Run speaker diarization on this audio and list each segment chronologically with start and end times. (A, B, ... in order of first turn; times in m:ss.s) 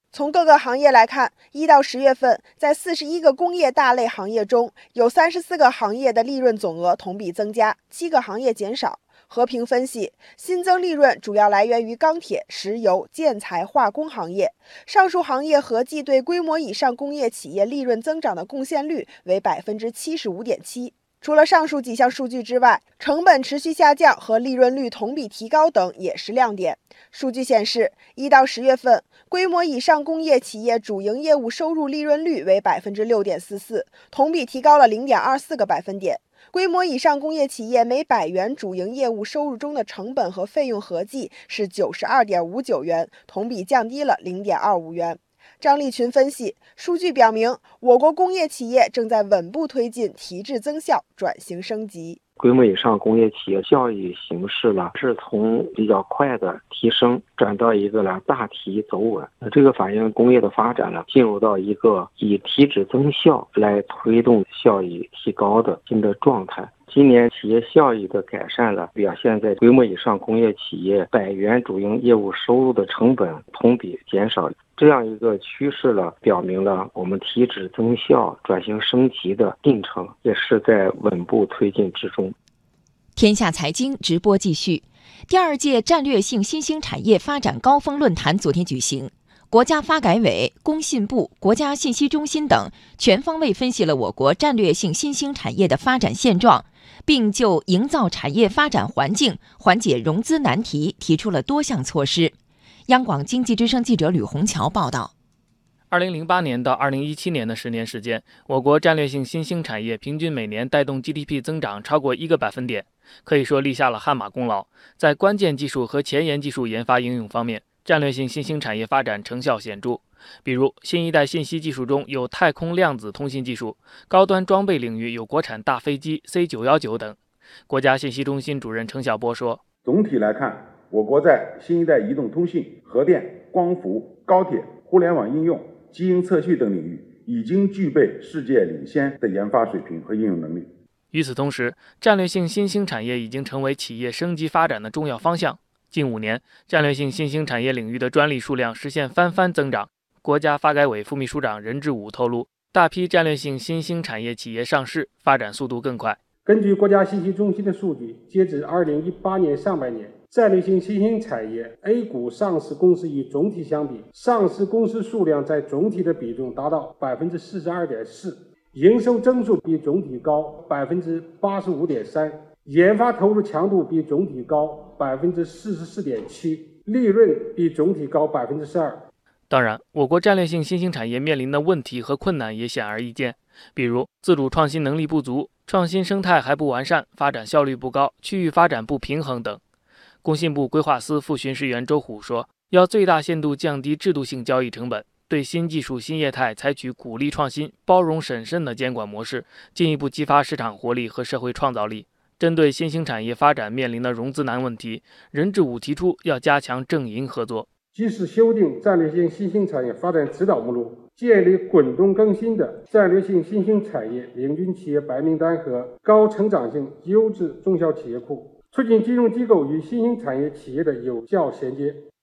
0:00.1-0:52.2 A
0:52.4-1:22.3 B
1:23.1-1:42.3 C
1:42.9-1:45.1 C
1:45.9-2:07.2 D
2:07.7-2:09.6 D
2:09.8-2:20.7 E
2:21.1-2:36.2 D
2:36.4-2:59.0 F
2:59.5-3:09.6 D
3:10.2-3:27.7 D
3:27.9-3:42.0 F